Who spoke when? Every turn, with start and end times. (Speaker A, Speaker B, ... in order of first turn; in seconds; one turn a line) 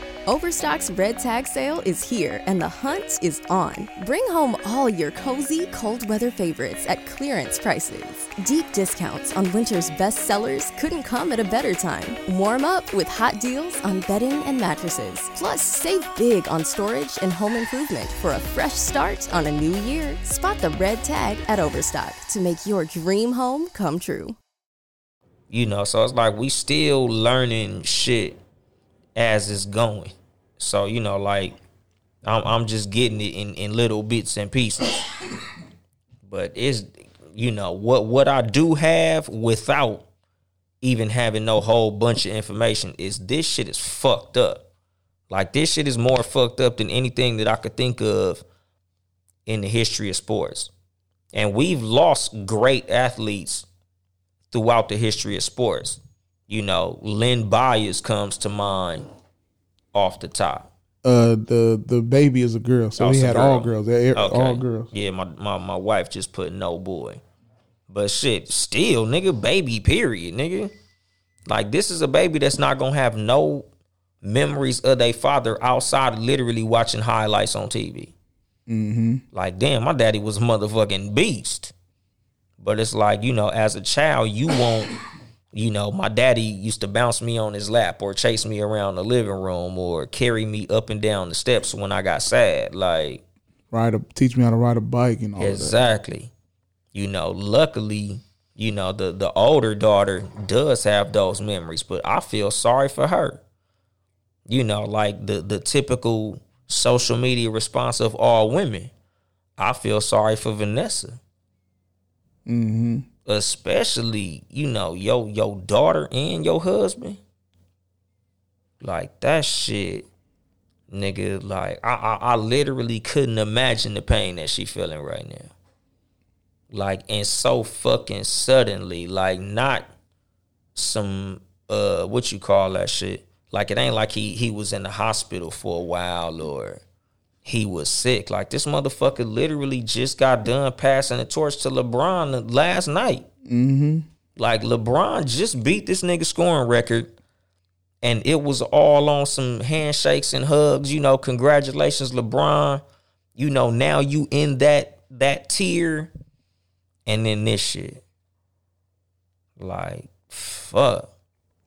Speaker A: 0.3-24.4
Speaker B: 25.5-28.4
Speaker B: 29.1-31.6
Speaker B: 32.2-35.0
Speaker B: 36.2-40.0
Speaker B: 40.8-44.6
Speaker B: 45.3-48.4
Speaker B: 49.5-50.7
Speaker B: 51.3-53.7
Speaker B: 54.5-59.1
Speaker B: 59.9-60.7
Speaker C: 61.0-64.9
Speaker B: 63.0-67.2
Speaker B: 67.9-70.7
Speaker B: 71.5-73.7
Speaker B: 74.2-78.1
Speaker C: 78.7-79.2
Speaker B: 79.3-81.7
Speaker B: 82.6-84.9
Speaker B: 85.5-93.2
Speaker C: 93.7-95.8
Speaker B: 95.4-96.3
Speaker B: 96.9-103.4
Speaker B: 104.5-108.9
Speaker B: 109.6-111.2
Speaker C: 112.5-113.0
Speaker B: 113.2-117.2
Speaker B: 118.8-120.0
Speaker B: 120.9-125.5
Speaker B: 126.7-129.9
Speaker B: 130.7-136.8
Speaker B: 137.4-143.3
Speaker C: 143.4-144.1
Speaker B: 144.4-147.1
Speaker B: 148.0-152.8
Speaker B: 153.3-156.1
Speaker B: 157.1-158.0
Speaker B: 159.6-161.1